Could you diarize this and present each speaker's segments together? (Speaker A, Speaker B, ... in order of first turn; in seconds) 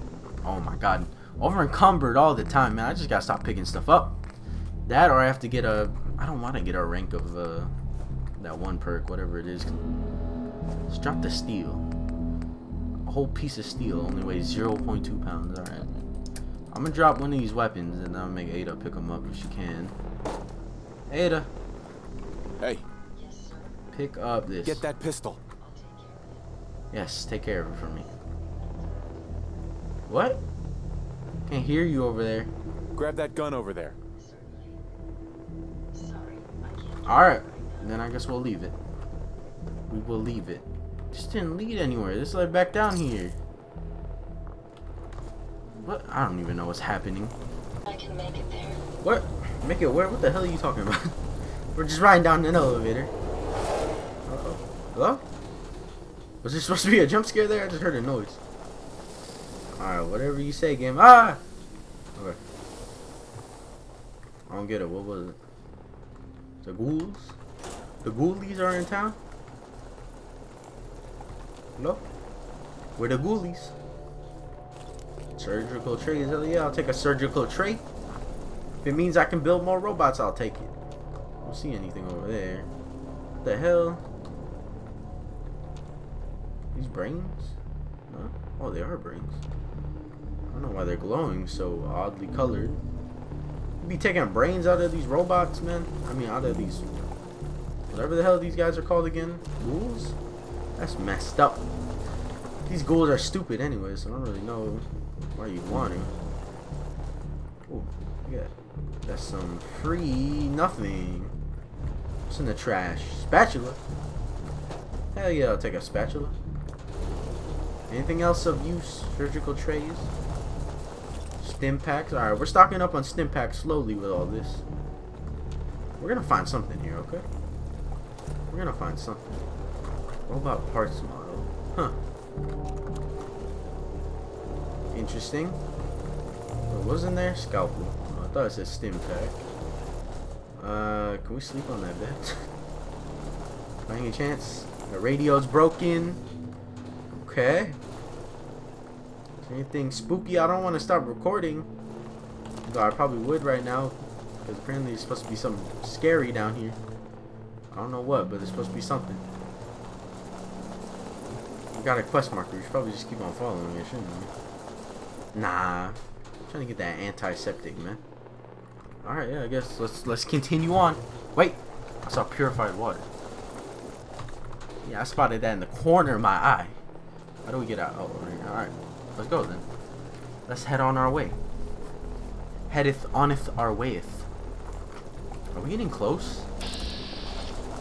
Speaker A: 0.4-4.2, 4.8-7.7, 8.4-9.8, 10.9-11.8, 13.0-16.0, 16.7-19.9, 21.1-21.5, 23.9-24.8, 26.9-28.1, 30.1-30.4, 31.5-32.5, 37.0-38.7, 39.9-43.4, 45.8-47.3, 49.0-51.2, 51.7-53.1, 54.3-55.2, 56.4-58.4, 59.8-61.4, 64.5-65.4, 66.6-67.3, 68.0-69.2, 71.8-72.0, 73.0-73.7, 75.3-77.8, 78.8-80.7, 81.4-82.7, 83.4-84.0, 86.7-87.5, 88.1-89.4, 90.5-92.8, 93.8-96.8, 97.9-100.2, 100.8-101.6, 102.7-106.1, 107.7-111.3, 112.3-113.8, 115.1-116.3, 117.9-120.1, 121.4-124.6, 126.0-127.2, 128.5-129.2, 130.3-131.9, 134.9-135.6, 136.7-139.4, 140.6-142.5, 143.9-146.2, 147.1-147.8, 149.4-151.7, 152.7-156.8, 157.7-159.2, 161.7-164.3, 165.3-168.0, 169.0-173.1, 174.8-176.8, 177.4-179.6, 180.5-181.4, 182.7-184.3, 185.5-186.5
Speaker B: 22.6-22.8, 24.6-25.4, 33.0-34.0
Speaker C: 23.1-23.8, 25.6-26.4, 34.1-34.8, 35.9-38.0, 47.8-48.8